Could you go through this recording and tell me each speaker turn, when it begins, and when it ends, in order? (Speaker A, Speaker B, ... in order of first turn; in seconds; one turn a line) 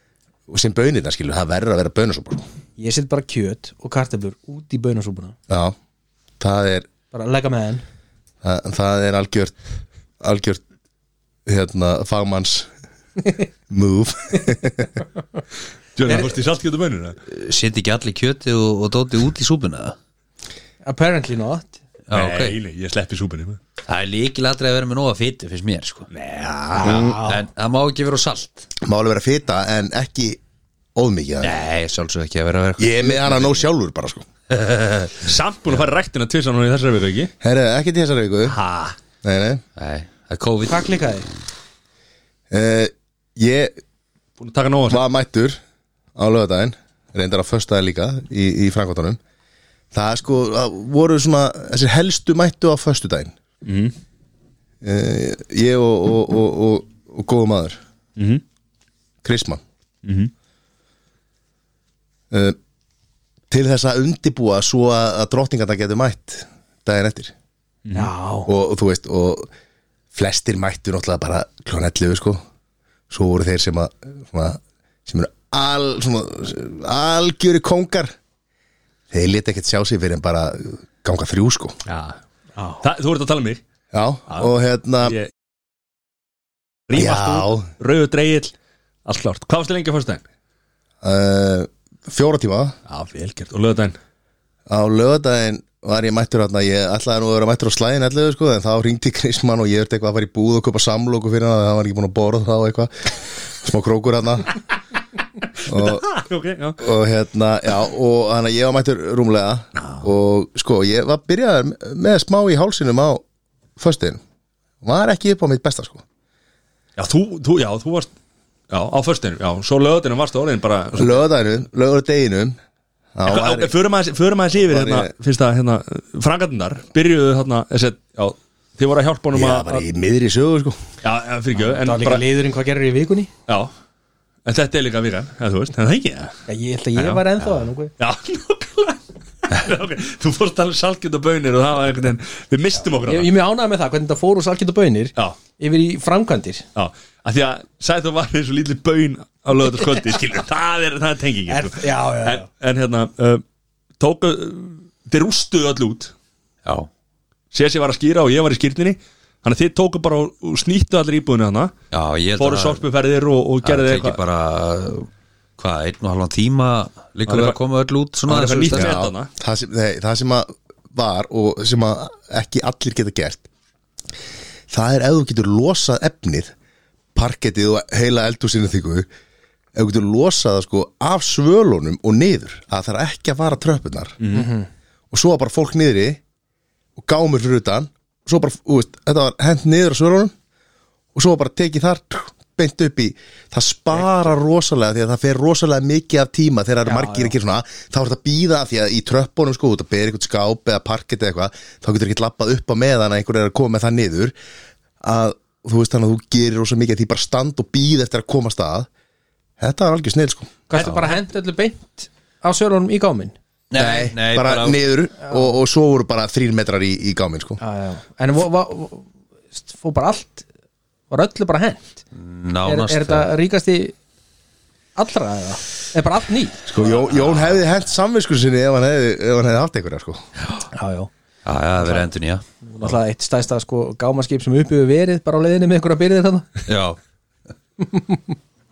Speaker A: 0.5-2.4
Speaker B: 2.8-5.3
Speaker A: 5.5-5.7
Speaker A: 6.4-6.9
Speaker B: 7.1-7.8
Speaker A: 8.4-9.6
Speaker A: 10.2-10.6
Speaker A: 11.4-12.7
Speaker A: 13.7-15.0
Speaker C: 15.9-17.2
Speaker D: 17.3-19.9
Speaker B: 20.8-21.8
Speaker D: 22.1-22.6
Speaker C: 22.1-23.6
Speaker D: 23.9-26.1
Speaker C: 26.1-27.1
Speaker B: 26.7-27.4
Speaker D: 26.8-28.7
Speaker A: 28.8-30.4
Speaker A: 30.9-31.6
Speaker D: 31.4-33.5
Speaker A: 32.8-34.2
Speaker D: 34.5-35.2
Speaker C: 35.2-37.3
Speaker A: 37.4-38.6
Speaker C: 38.4-39.0
Speaker A: 39.2-39.6
Speaker D: 39.8-41.0
Speaker B: 40.7-41.3
Speaker A: 42.5-43.7
Speaker C: 44.4-45.0
Speaker A: 44.9-45.6
Speaker A: 46.1-49.2
Speaker A: 49.9-53.3
Speaker C: 53.6-53.9
Speaker A: 54.8-57.8
Speaker C: 58.2-58.4
Speaker A: 59.2-59.6
Speaker C: 60.0-60.3
Speaker A: 62.3-62.6
Speaker A: 63.5-67.3
Speaker C: 67.8-68.1
Speaker B: 67.9-68.5
Speaker A: 68.5-69.5
Speaker A: 70.1-72.4
Speaker A: 73.1-78.1
Speaker A: 79.1-81.8
Speaker C: 81.8-82.2
Speaker B: 82.5-82.8
Speaker C: 82.8-83.6
Speaker A: 83.9-85.2
Speaker C: 85.0-85.3
Speaker C: 86.9-88.5
Speaker A: 86.9-87.7
Speaker C: 89.0-90.2
Speaker A: 91.0-92.7
Speaker C: 92.9-94.0
Speaker A: 94.7-104.5
Speaker C: 105.6-106.8
Speaker A: 105.7-106.1
Speaker A: 106.8-113.2
Speaker C: 109.8-110.1
Speaker A: 113.8-114.2
Speaker A: 114.8-116.0
Speaker C: 117.0-118.1
Speaker C: 118.7-121.2
Speaker A: 120.9-122.6
Speaker A: 123.1-123.7
Speaker C: 123.2-129.8
Speaker A: 124.6-125.1
Speaker A: 129.3-130.8
Speaker C: 131.0-132.2
Speaker B: 131.6-133.3
Speaker C: 133.5-133.7
Speaker C: 134.4-136.3
Speaker B: 136.5-137.9
Speaker C: 136.9-137.4
Speaker C: 138.0-143.3
Speaker B: 143.0-146.6
Speaker C: 146.7-153.4
Speaker B: 151.5-152.5
Speaker C: 154.0-156.1
Speaker C: 157.5-161.7
Speaker D: 161.9-162.8
Speaker C: 162.4-164.2
Speaker D: 163.6-169.0
Speaker C: 167.3-167.6
Speaker C: 168.3-169.3
Speaker A: 168.7-173.5
Speaker A: 174.7-176.5
Speaker A: 177.1-179.1
Speaker A: 179.7-184.2
Speaker C: 184.2-184.5
Speaker B: 184.3-184.7
Speaker A: 185.1-186.2
Speaker A: 187.0-190.3
Speaker A: 191.1-204.3
Speaker B: 196.8-197.3
Speaker A: 205.0-208.9
Speaker A: 209.6-210.5
Speaker B: 210.7-213.3
Speaker C: 210.7-211.1
Speaker D: 213.7-214.8
Speaker A: 213.7-217.6
Speaker B: 217.6-220.5
Speaker B: 221.1-222.0
Speaker D: 222.1-223.3
Speaker B: 222.6-223.9
Speaker B: 225.0-226.7
Speaker A: 226.7-230.2
Speaker B: 230.7-231.1
Speaker D: 231.4-232.4
Speaker B: 232.6-236.4
Speaker D: 236.7-237.0